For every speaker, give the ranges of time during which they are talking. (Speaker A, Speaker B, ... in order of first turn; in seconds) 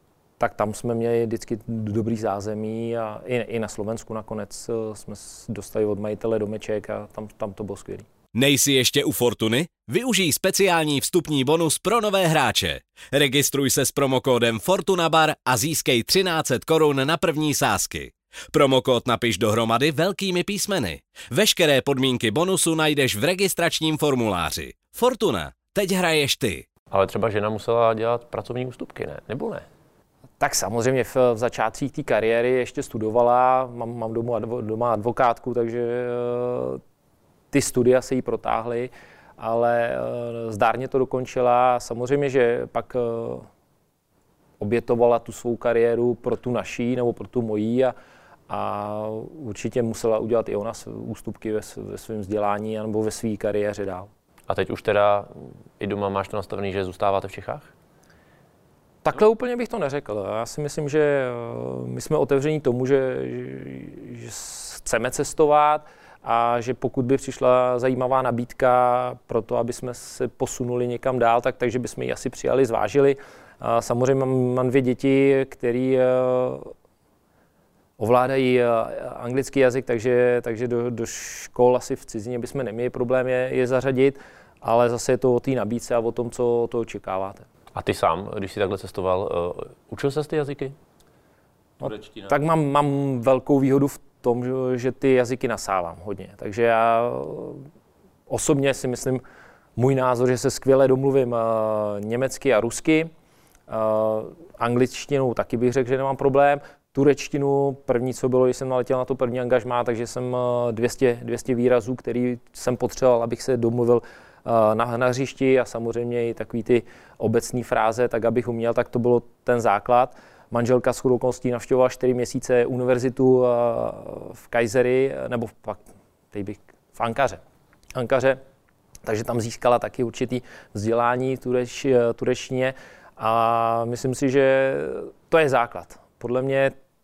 Speaker A: 0.4-8.1, 30.4-36.8, 37.5-43.5, 44.6-47.9, 48.5-54.1, 59.0-76.7, 78.0-87.5, 91.8-97.7, 98.3-99.2, 99.8-103.1, 103.7-125.8, 126.3-127.4, 128.0-128.4, 129.0-136.8
Speaker B: 8.3-26.7
Speaker C: 26.9-29.6, 54.5-57.7, 87.7-90.8